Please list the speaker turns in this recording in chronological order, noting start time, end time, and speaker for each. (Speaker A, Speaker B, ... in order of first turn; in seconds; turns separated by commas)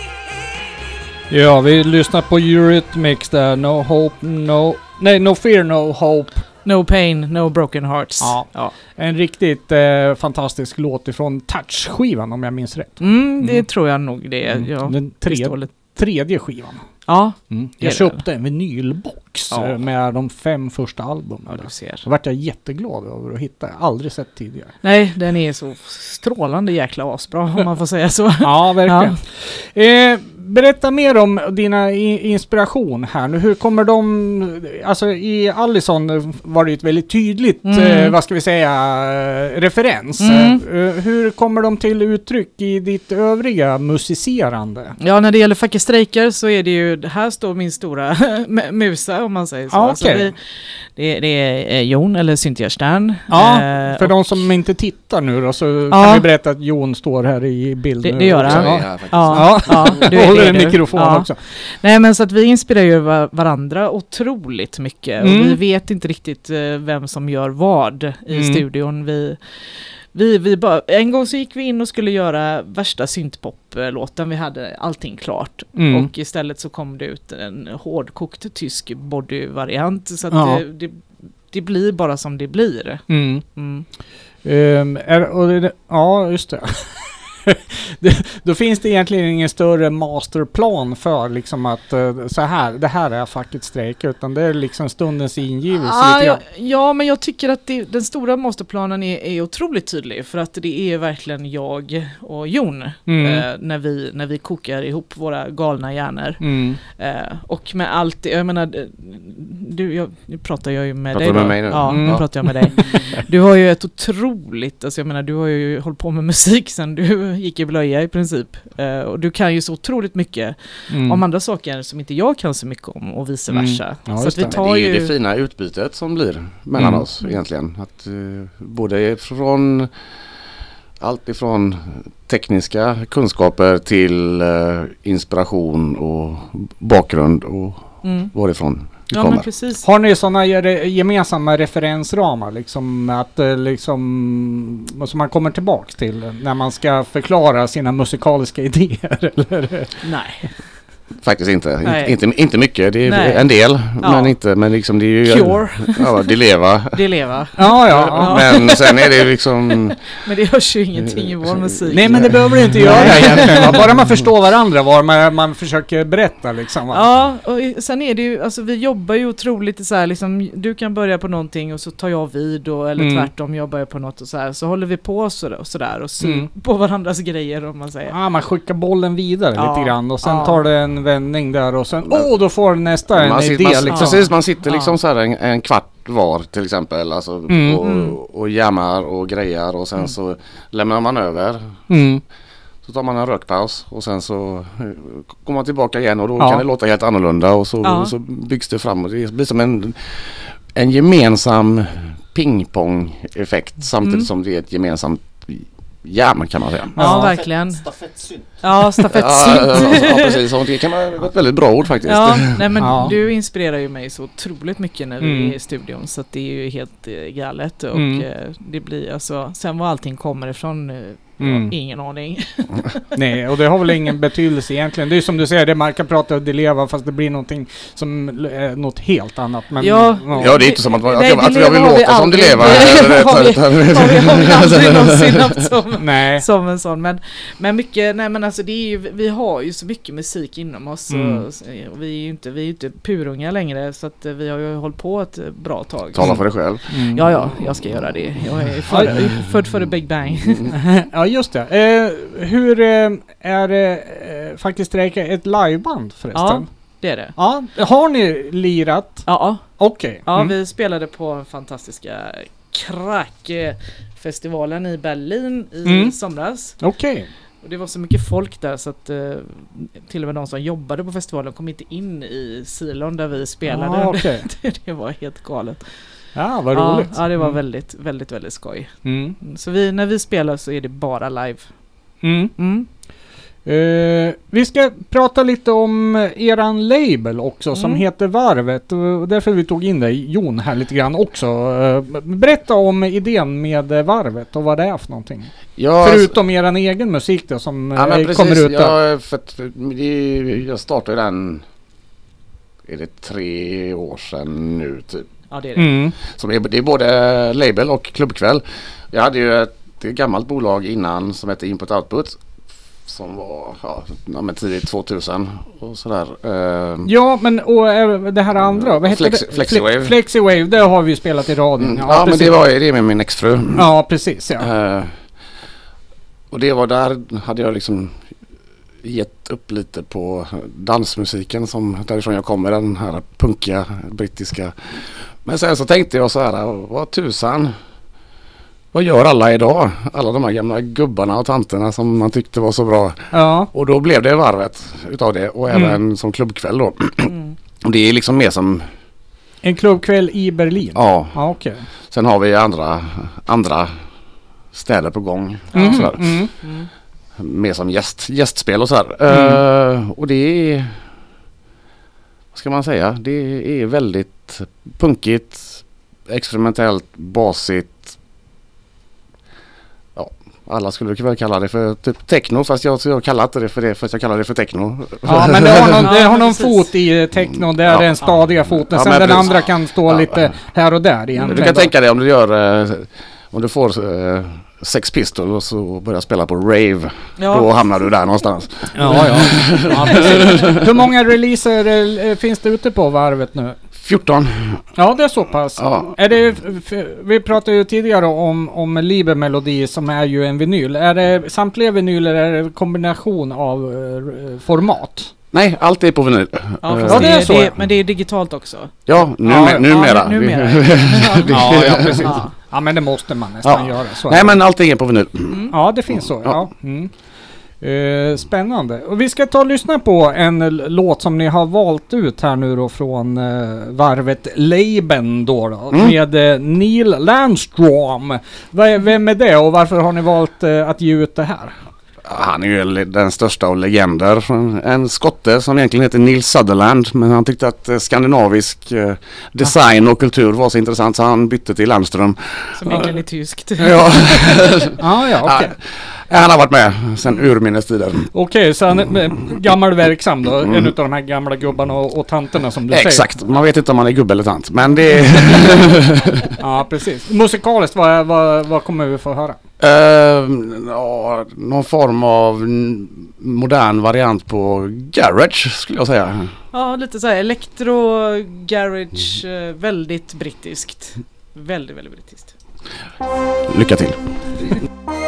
Speaker A: 1.3-6.4, Speaker B: 6.6-8.7, Speaker A: 8.2-13.7, Speaker B: 13.0-15.7, Speaker A: 14.5-16.9, Speaker B: 17.1-18.2, Speaker A: 17.5-24.7, Speaker B: 19.5-19.8, Speaker B: 21.5-22.0, Speaker B: 24.8-29.1, Speaker A: 28.4-45.0, Speaker B: 37.6-38.1, Speaker B: 40.2-40.6, Speaker B: 45.0-54.4, Speaker A: 49.7-50.3, Speaker A: 53.3-61.4, Speaker B: 55.9-56.2, Speaker B: 58.0-83.8, Speaker C: 58.4-60.2, Speaker A: 65.2-65.6, Speaker A: 68.3-68.6, Speaker A: 75.8-76.1, Speaker A: 80.3-80.6, Speaker A: 83.1-83.4, Speaker A: 84.4-96.4, Speaker B: 95.8-125.1, Speaker A: 103.1-103.5, Speaker A: 106.4-106.8, Speaker C: 111.1-112.2, Speaker A: 111.8-113.0, Speaker A: 120.9-121.2, Speaker A: 123.5-124.5, Speaker C: 124.3-129.9, Speaker A: 126.8-127.0, Speaker C: 131.0-139.5, Speaker B: 138.0-138.3, Speaker B: 139.1-139.8, Speaker A: 139.8-150.0, Speaker B: 150.0-150.5, Speaker C: 151.2-157.0, Speaker B: 151.8-152.1, Speaker B: 153.1-153.4, Speaker B: 154.0-154.3, Speaker B: 155.2-156.3, Speaker B: 156.9-163.8, Speaker A: 157.6-158.4, Speaker C: 157.6-160.0, Speaker C: 161.1-164.0, Speaker A: 161.9-167.1, Speaker B: 166.9-178.1, Speaker A: 173.0-173.3, Speaker A: 176.2-176.5, Speaker A: 178.1-184.3, Speaker B: 179.6-180.6, Speaker C: 183.1-191.8, Speaker B: 183.9-184.9, Speaker A: 187.5-187.8, Speaker B: 187.8-188.2, Speaker A: 191.9-192.2, Speaker C: 192.8-207.0, Speaker A: 196.4-196.6, Speaker B: 197.8-198.1, Speaker A: 206.9-207.4, Speaker B: 207.0-207.9, Speaker B: 208.6-210.4, Speaker C: 209.1-212.7, Speaker B: 212.1-223.1, Speaker A: 212.8-213.2, Speaker A: 215.2-215.5, Speaker A: 217.9-218.2, Speaker A: 221.4-221.7, Speaker A: 223.1-230.7, Speaker B: 229.8-250.7, Speaker C: 230.3-235.5, Speaker A: 236.0-236.4, Speaker A: 241.1-241.4, Speaker C: 246.1-246.9, Speaker A: 246.2-247.2, Speaker A: 248.9-249.3, Speaker A: 250.7-256.7, Speaker B: 256.3-257.3, Speaker A: 257.4-260.6, Speaker B: 259.2-266.8, Speaker A: 265.8-266.1, Speaker A: 266.8-267.3, Speaker B: 267.6-275.9, Speaker A: 273.7-274.4, Speaker A: 276.3-277.6, Speaker B: 276.7-281.7, Speaker A: 279.0-279.4, Speaker A: 282.2-282.5, Speaker B: 282.6-282.9, Speaker A: 283.6-299.0, Speaker B: 287.7-288.0, Speaker C: 295.8-296.3, Speaker C: 297.9-301.6, Speaker C: 302.9-305.3, Speaker B: 305.5-305.9, Speaker A: 305.8-306.1, Speaker C: 306.2-312.4, Speaker C: 313.0-317.1, Speaker A: 317.0-322.6, Speaker C: 318.7-320.1, Speaker C: 321.8-323.9, Speaker A: 323.8-324.7, Speaker C: 324.6-325.2, Speaker C: 326.5-328.2, Speaker C: 329.0-337.8, Speaker C: 338.9-348.9, Speaker A: 343.3-343.7, Speaker A: 345.7-346.0, Speaker A: 349.6-351.9, Speaker C: 350.9-351.4, Speaker C: 352.1-353.9, Speaker C: 354.7-356.5, Speaker B: 355.7-356.1, Speaker A: 355.7-356.5, Speaker B: 356.6-356.9, Speaker C: 357.4-361.1, Speaker A: 359.3-359.6, Speaker C: 362.5-368.1, Speaker C: 370.1-376.1, Speaker A: 375.2-381.9, Speaker B: 376.0-376.9, Speaker C: 378.8-380.5, Speaker B: 381.4-381.7, Speaker C: 381.4-390.8, Speaker B: 387.4-387.7, Speaker A: 388.9-393.8, Speaker C: 394.0-394.8, Speaker A: 395.0-405.3, Speaker C: 395.8-396.2, Speaker C: 405.5-407.5, Speaker B: 406.8-412.5, Speaker A: 407.1-407.7, Speaker C: 409.1-412.4, Speaker A: 409.4-409.9, Speaker A: 411.5-414.6, Speaker C: 413.6-415.6, Speaker A: 415.7-417.1, Speaker A: 417.8-431.7, Speaker C: 432.2-443.2, Speaker B: 442.7-444.6, Speaker C: 443.8-448.3, Speaker A: 445.0-445.7, Speaker A: 448.3-453.3, Speaker C: 452.9-456.5, Speaker A: 456.6-459.6, Speaker C: 459.8-466.5, Speaker B: 466.7-472.5, Speaker C: 473.7-474.2